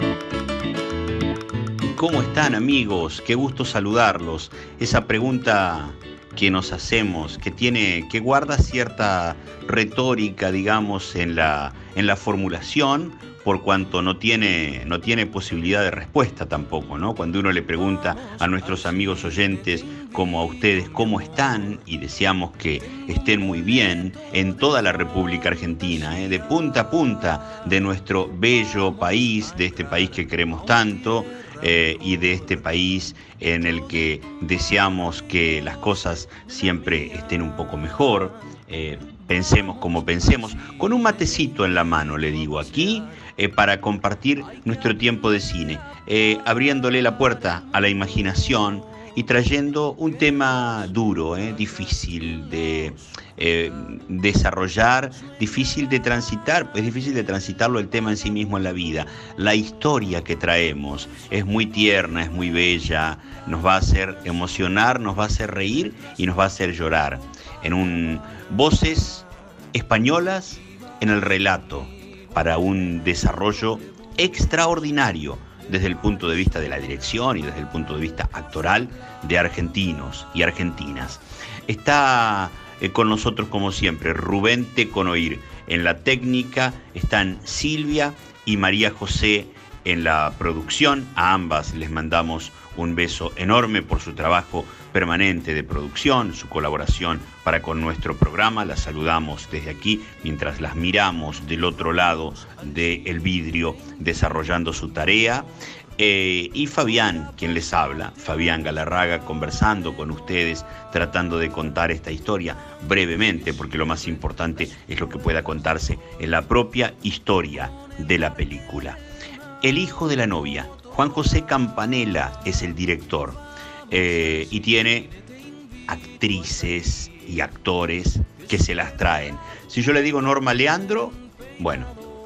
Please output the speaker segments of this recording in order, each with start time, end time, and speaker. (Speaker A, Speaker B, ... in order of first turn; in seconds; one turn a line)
Speaker A: 1.9-119.0
Speaker A: 119.6-125.2
Speaker A: 125.9-131.9